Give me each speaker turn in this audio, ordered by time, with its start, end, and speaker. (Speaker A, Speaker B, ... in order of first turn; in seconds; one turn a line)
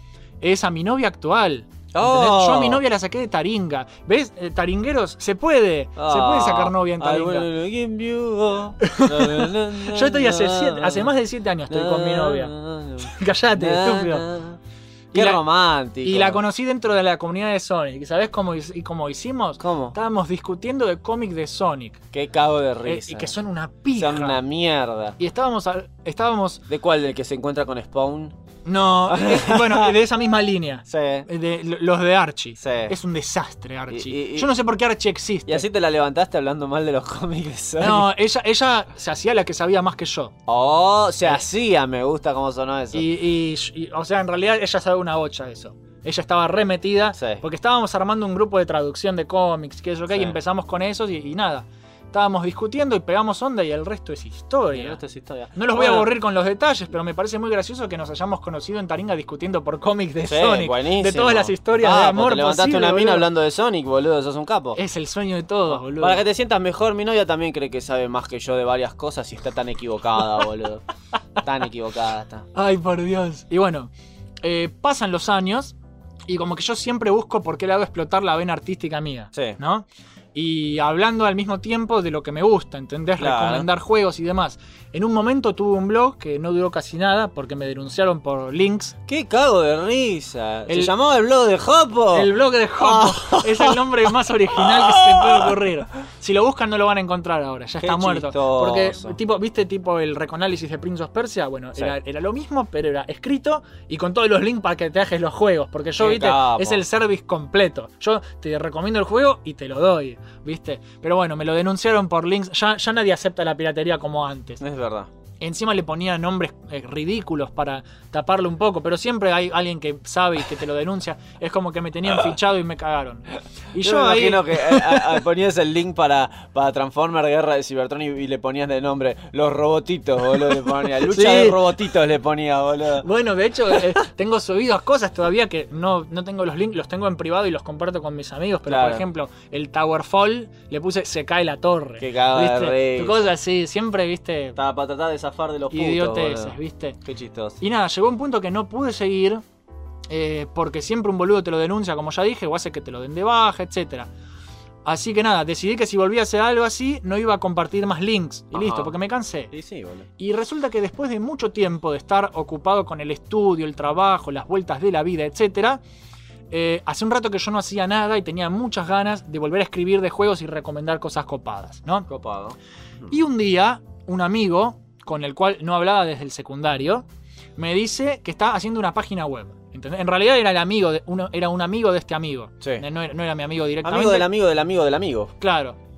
Speaker A: 0.4-7.5
Speaker B: 1.9-2.8
Speaker B: 6.0-11.1
Speaker A: 8.8-14.2
Speaker B: 11.7-14.6
Speaker A: 15.1-15.4
Speaker B: 15.1-16.4
Speaker A: 16.0-22.0
Speaker B: 19.6-19.9
Speaker B: 22.1-23.3
Speaker A: 22.8-24.4
Speaker B: 23.9-25.1
Speaker A: 25.2-26.6
Speaker B: 26.7-28.3
Speaker A: 28.6-35.6
Speaker B: 29.1-29.9
Speaker B: 30.9-31.3
Speaker B: 32.6-32.9
Speaker B: 33.9-34.5
Speaker B: 35.5-38.1
Speaker A: 37.8-40.3
Speaker B: 40.5-43.1
Speaker A: 42.9-55.0
Speaker B: 47.1-47.4
Speaker B: 54.7-56.1
Speaker A: 55.5-63.3
Speaker B: 60.2-64.8
Speaker A: 64.8-66.2
Speaker B: 65.7-70.8
Speaker B: 71.4-72.4
Speaker A: 72.5-73.9
Speaker A: 74.4-75.8
Speaker A: 76.3-89.0
Speaker B: 79.3-79.6
Speaker B: 83.2-83.7
Speaker B: 89.1-93.8
Speaker A: 90.7-90.9
Speaker A: 92.1-114.6
Speaker B: 94.5-95.5
Speaker B: 97.8-99.2
Speaker B: 106.0-106.8
Speaker B: 114.6-115.1
Speaker A: 115.4-125.2
Speaker B: 123.8-133.1
Speaker A: 131.0-131.6
Speaker A: 133.0-144.6
Speaker B: 138.7-139.0
Speaker B: 142.0-143.3
Speaker B: 144.6-147.6
Speaker A: 145.7-147.0
Speaker A: 147.6-149.4
Speaker A: 150.1-154.1
Speaker A: 154.8-159.5
Speaker B: 158.5-158.9
Speaker B: 159.5-160.1
Speaker A: 160.2-165.8
Speaker A: 166.5-172.1
Speaker B: 172.1-173.1
Speaker A: 173.1-177.1
Speaker A: 177.6-184.3
Speaker B: 183.8-185.3
Speaker A: 185.4-185.8